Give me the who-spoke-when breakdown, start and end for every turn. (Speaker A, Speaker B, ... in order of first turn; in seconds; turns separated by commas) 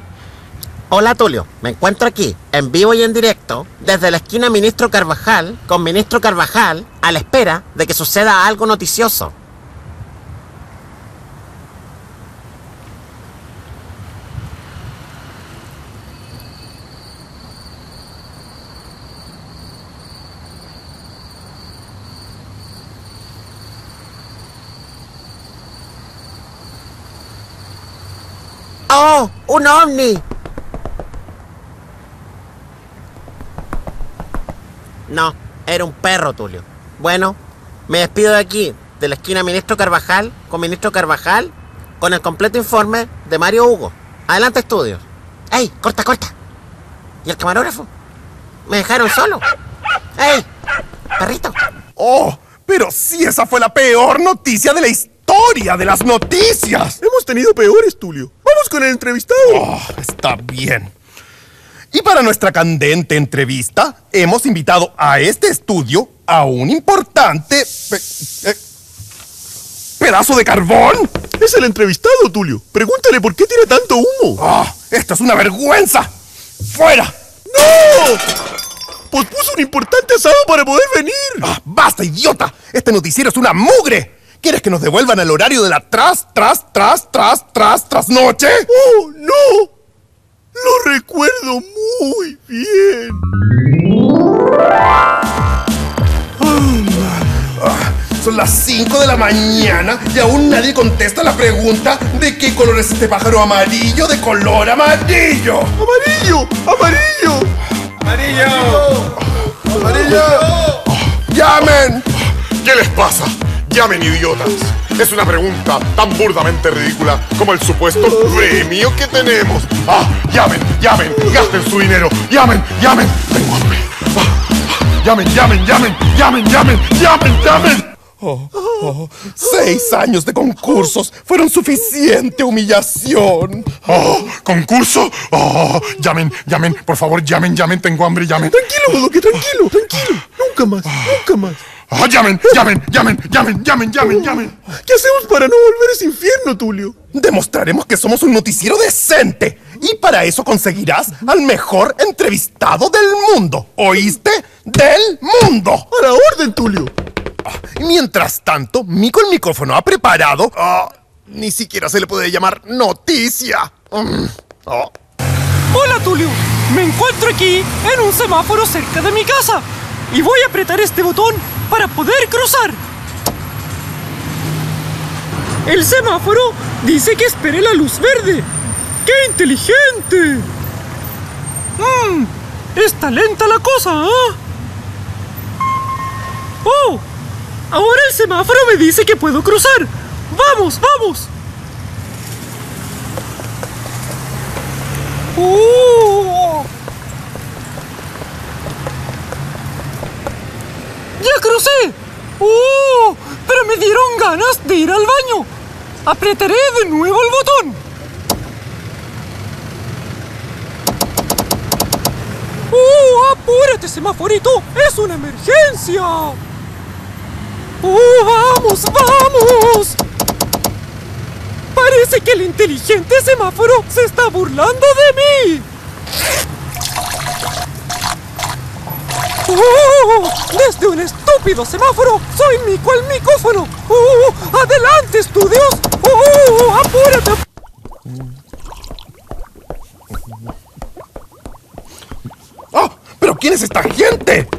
Speaker A: 0.9-9.3, Speaker A: 28.9-30.2, Speaker A: 35.1-46.3, Speaker A: 47.2-47.9, Speaker A: 48.6-49.4, Speaker A: 50.2-50.5, Speaker A: 51.2-51.6, Speaker B: 52.0-57.0, Speaker C: 57.0-59.7, Speaker B: 59.4-60.9, Speaker B: 61.9-68.6, Speaker B: 70.0-71.1, Speaker C: 71.4-74.4, Speaker B: 74.4-76.1, Speaker B: 76.7-77.1, Speaker C: 77.5-78.2, Speaker C: 79.1-81.5, Speaker B: 81.4-88.7, Speaker C: 88.7-89.7, Speaker C: 90.5-93.2, Speaker C: 96.5-97.0, Speaker B: 97.6-105.7, Speaker C: 105.8-107.5, Speaker C: 109.8-110.4, Speaker B: 109.8-110.2, Speaker B: 111.3-112.1, Speaker D: 112.6-124.3, Speaker D: 125.0-127.9, Speaker B: 128.4-133.8, Speaker C: 128.6-128.8, Speaker D: 133.8-138.6, Speaker C: 138.5-141.6, Speaker D: 141.9-144.5, Speaker C: 144.7-146.9, Speaker B: 147.1-155.9, Speaker C: 155.9-156.9, Speaker B: 157.6-164.9, Speaker E: 165.7-172.8, Speaker E: 175.7-178.5, Speaker E: 179.0-180.5, Speaker E: 181.8-184.4, Speaker E: 186.6-187.0, Speaker E: 187.7-191.3, Speaker E: 195.3-196.6, Speaker E: 201.2-205.5, Speaker E: 206.0-207.8, Speaker E: 212.7-216.4, Speaker E: 217.8-220.0, Speaker E: 221.7-225.7, Speaker E: 229.4-237.4, Speaker B: 242.7-244.5